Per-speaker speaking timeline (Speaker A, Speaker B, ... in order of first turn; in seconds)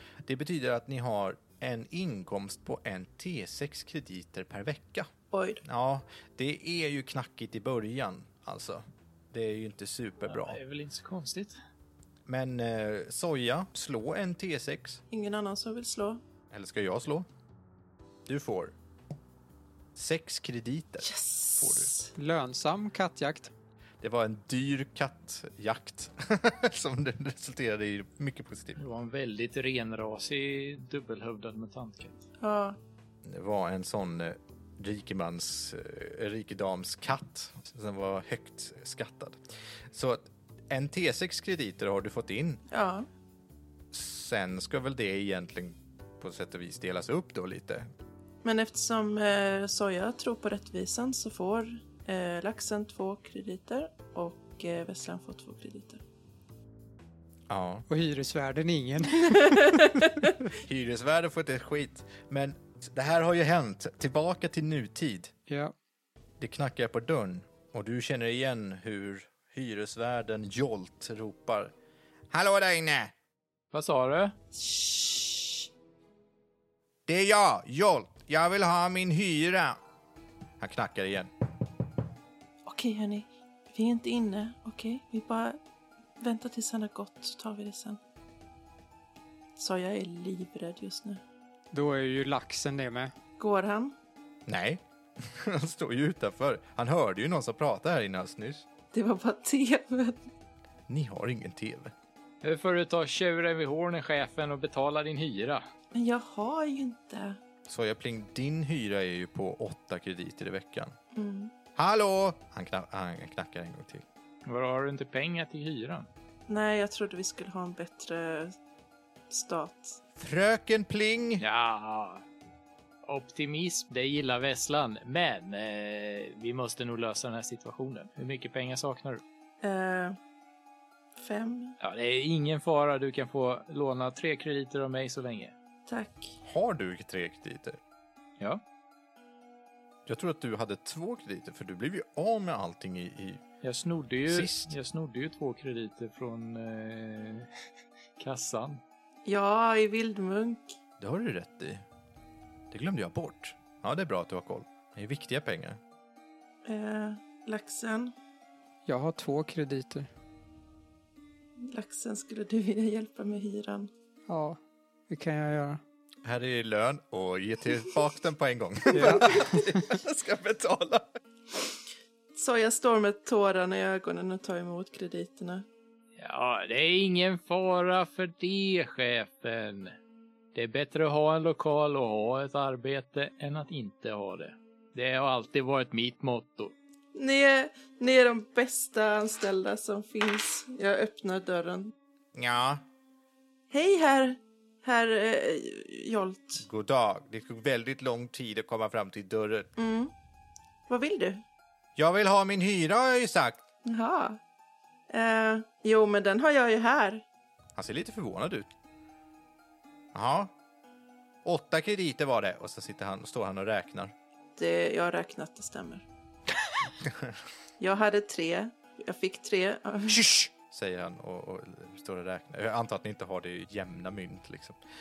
Speaker A: 0.2-5.1, 5.6-10.6, 12.3-15.0, 16.5-17.3, 18.3-18.8, 20.0-21.9, 24.0-28.8, 33.2-42.6, 43.9-47.9, 57.5-57.9, 60.5-65.3, 66.4-71.7, 72.3-73.1, 77.1-79.8, 80.6-81.3, 94.5-98.7, 100.9-101.9, 107.7-111.0, 111.8-114.0, 120.2-121.4, 136.4-137.8, 140.1-143.4, 144.3-144.8, 151.0-151.8, 152.7-155.8, 166.2-171.1, 192.3-192.8, 196.6-199.7, 202.0-203.6, 207.8-208.7, 210.1-210.5, 211.4-214.1, 217.0-217.3, 220.1-224.8
Speaker B: 5.3-5.6, 15.1-16.2, 21.0-22.1, 32.4-32.8, 42.7-43.1, 48.4-56.0, 59.3-60.2, 74.5-75.7, 82.7-85.6, 86.2-88.0, 89.6-91.2, 93.4-93.9, 98.9-100.2, 105.9-107.4, 111.2-111.5, 116.5-118.5, 119.3-120.0, 129.6-130.2, 131.2-131.8, 135.9-136.4, 149.3-150.7, 156.7-158.1, 161.6-163.9, 172.3-175.7, 187.2-191.9, 193.7-196.6, 199.8-200.1, 200.9-201.4, 203.9-204.4, 205.1-207.2, 214.6-216.1, 217.8-220.3
Speaker C: 10.2-11.6, 28.8-32.2, 73.7-74.3, 102.4-105.6, 114.5-116.1, 121.4-122.2, 123.1-129.2, 131.8-135.5, 143.6-147.5, 148.2-148.8, 176.2-180.0, 180.5-186.7
Speaker D: 22.2-23.5, 57.9-60.0, 65.5-65.7, 91.7-93.1, 158.9-160.1, 164.3-165.8, 168.9-169.8